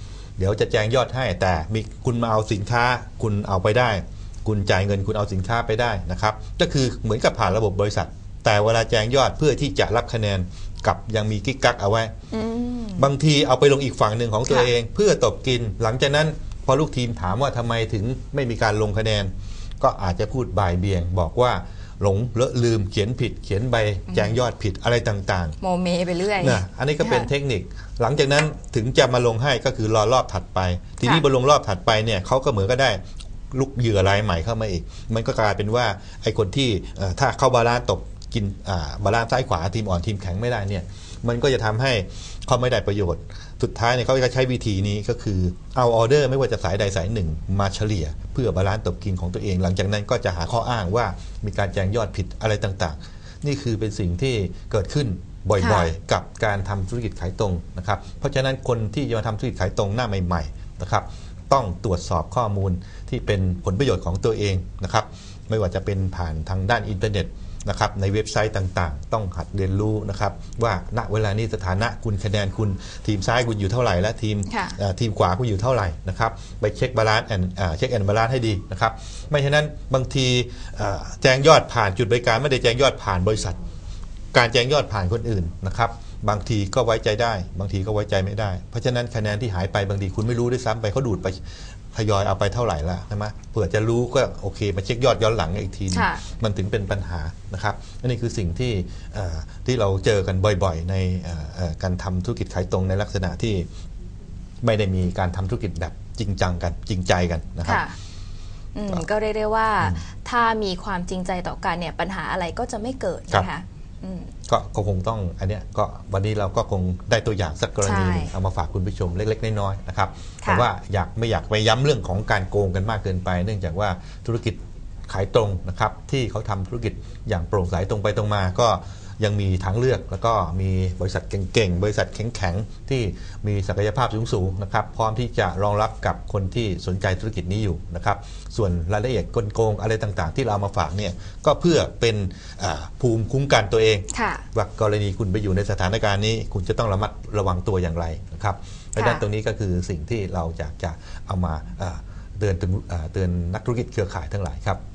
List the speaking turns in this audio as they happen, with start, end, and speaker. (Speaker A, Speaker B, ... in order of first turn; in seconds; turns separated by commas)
Speaker A: 0.4-12.1, Speaker B: 12.3-13.1, Speaker A: 13.0-25.6, Speaker B: 24.1-24.4, Speaker B: 25.6-27.3, Speaker A: 26.4-33.0, Speaker A: 33.5-83.6, Speaker B: 55.6-55.9, Speaker B: 74.5-74.8, Speaker A: 84.3-91.4, Speaker A: 91.9-103.7, Speaker B: 95.9-96.2, Speaker A: 104.6-107.8, Speaker B: 107.6-108.0, Speaker B: 108.8-114.3, Speaker A: 114.5-154.8, Speaker B: 117.8-118.3, Speaker B: 120.4-120.7, Speaker B: 144.1-144.4, Speaker B: 149.0-149.2